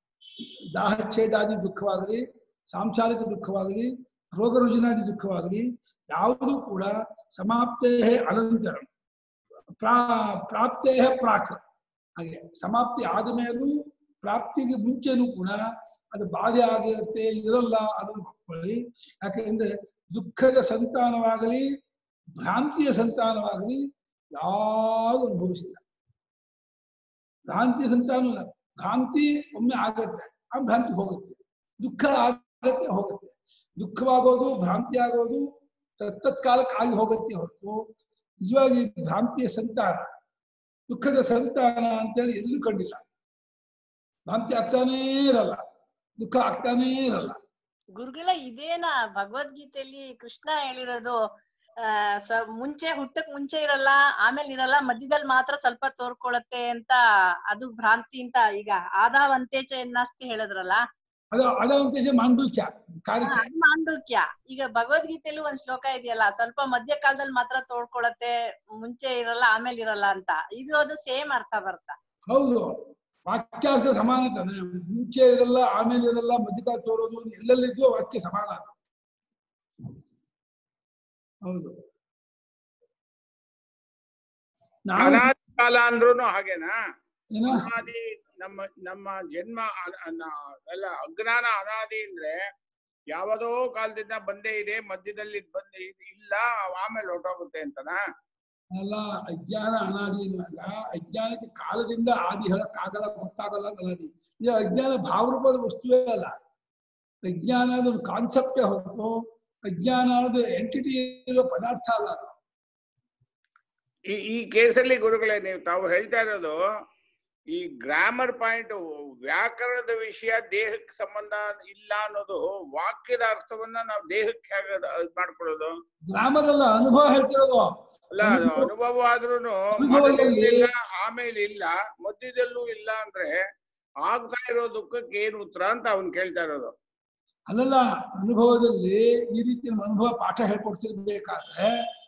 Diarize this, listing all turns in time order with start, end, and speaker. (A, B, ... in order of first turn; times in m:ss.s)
0:00.4-0:08.9 A
0:09.8-0:11.6 A
0:12.2-0:15.6 A
0:16.1-0:21.7 A
0:22.4-0:25.8 A
0:27.5-0:35.5 A
0:36.0-0:37.9 A
0:38.4-0:40.1 A
0:40.9-0:43.0 A
0:44.3-0:45.6 A
0:46.2-0:47.4 A
0:48.0-0:51.2 B
0:51.8-1:00.8 B
1:01.3-1:03.5 A
1:03.2-1:12.0 B
1:12.3-1:18.8 A
1:21.4-1:21.8 A
1:24.9-1:25.3 A
1:25.0-1:26.7 C
1:27.3-1:27.7 A
1:27.4-1:32.4 C
1:33.1-1:38.0 C
1:38.7-1:46.3 A
1:47.2-1:49.1 A
1:49.7-1:52.4 A
1:54.1-1:56.6 C
1:57.5-2:05.7 C
2:06.1-2:08.7 A
2:08.1-2:13.5 C
2:09.7-2:10.7 A
2:14.0-2:16.7 C
2:17.5-2:21.8 A